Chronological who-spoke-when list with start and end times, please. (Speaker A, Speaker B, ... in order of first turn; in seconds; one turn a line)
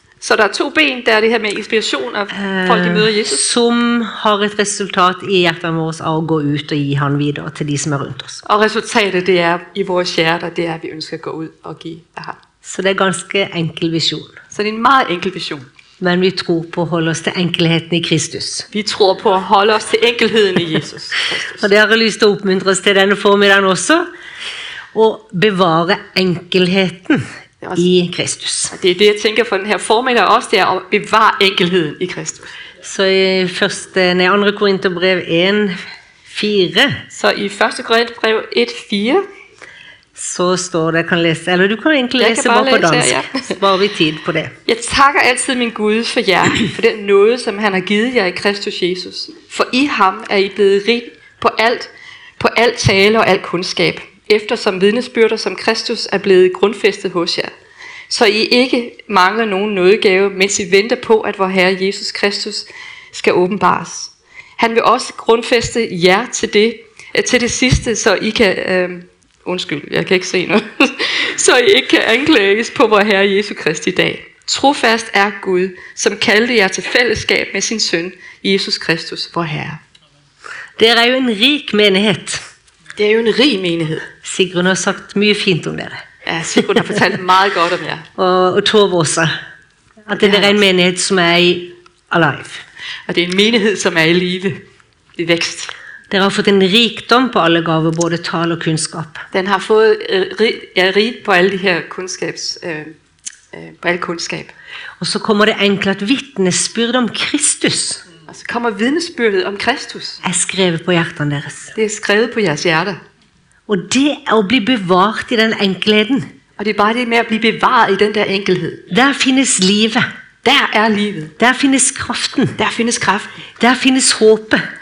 Speaker A: 0.2-3.5
Speaker B: 2.3-8.4
Speaker A: 8.4-12.4
Speaker B: 12.6-14.3
Speaker A: 14.5-15.7
Speaker B: 16.0-18.7
Speaker A: 18.7-21.7
Speaker B: 21.6-24.0
Speaker B: 24.9-27.2
Speaker A: 27.6-27.9
Speaker B: 27.8-28.7
Speaker A: 28.7-32.5
Speaker B: 32.8-35.8
Speaker B: 36.3-37.0
Speaker A: 37.1-39.2
Speaker B: 40.1-44.5
Speaker A: 42.2-43.6
Speaker A: 44.7-57.5
Speaker A: 58.1-79.8
Speaker B: 80.8-82.4
Speaker A: 83.0-84.1
Speaker B: 84.2-86.0
Speaker A: 86.2-88.1
Speaker B: 88.2-89.3
Speaker B: 90.0-92.6
Speaker A: 90.1-90.6
Speaker A: 93.1-94.6
Speaker A: 95.2-95.7
Speaker B: 96.1-99.2
Speaker A: 99.3-102.9
Speaker A: 103.5-104.5
Speaker B: 105.0-108.0
Speaker A: 108.3-110.2
Speaker B: 110.2-111.7
Speaker A: 111.7-113.0
Speaker B: 113.7-116.3
Speaker A: 116.6-118.9
Speaker B: 118.9-120.0
Speaker A: 120.4-121.3
Speaker B: 121.4-122.5
Speaker A: 122.6-123.4
Speaker B: 123.6-124.6